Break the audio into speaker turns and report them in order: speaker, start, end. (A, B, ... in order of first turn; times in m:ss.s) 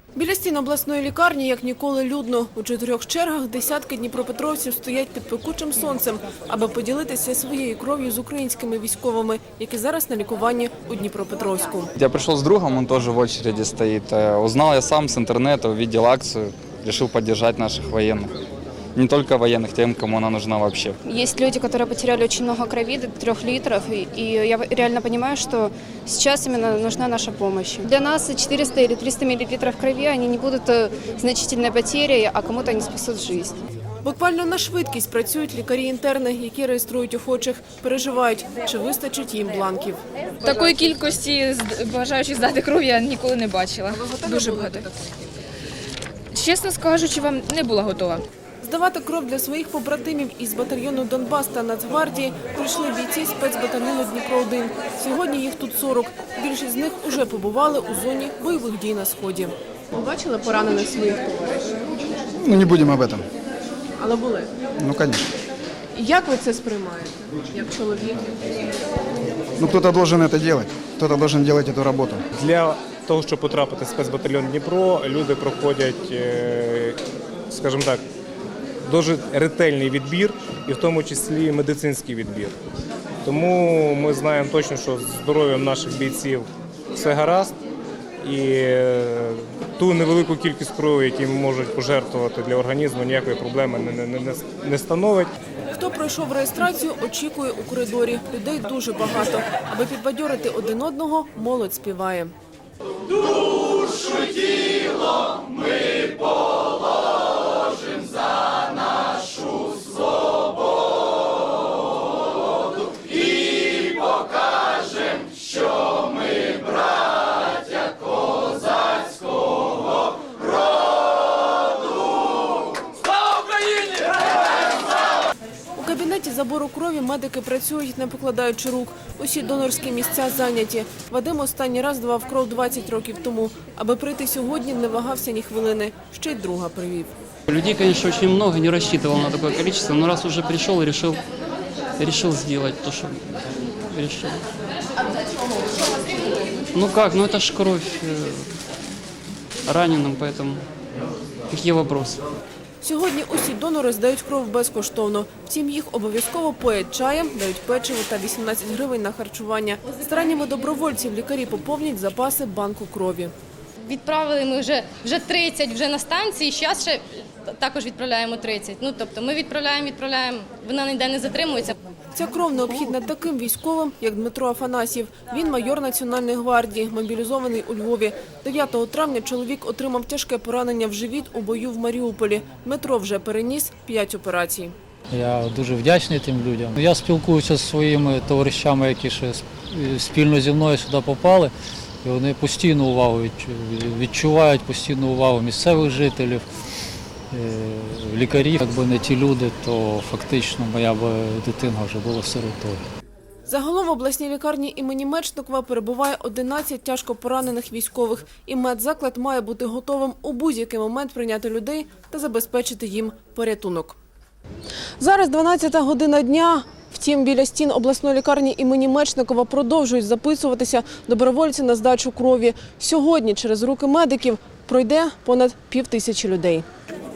0:00.2-0:11.9 A
0:12.0-0:18.3 B
0:19.0-0:21.0 B
0:21.0-0:33.6 C
0:34.0-0:40.0 A
0:40.4-0:44.9 D
0:43.9-0:44.9 A
0:46.3-0:48.2 D
0:48.6-1:01.8 A
1:02.4-1:03.2 E
1:04.0-1:04.5 A
1:04.8-1:05.3 E
1:06.0-1:08.3 A
1:09.6-1:12.2 E
1:12.4-1:17.0 F
1:17.5-1:18.0 F
1:18.9-1:22.5 F
1:23.2-1:27.5 F
1:28.2-1:35.3 F
1:35.7-1:42.3 A
2:05.8-2:17.1 A
2:17.5-2:21.2 G
2:22.0-2:23.2 G
2:23.9-2:24.4 G
2:26.7-2:28.5 G
2:29.7-2:30.6 G
2:31.5-2:32.2 G
2:32.8-2:43.3 A
2:43.9-2:51.8 H
2:52.2-3:04.7 A
3:05.1-3:16.5 I
3:17.3-3:22.8 I
3:23.5-3:34.0 A
3:35.0-3:46.7 A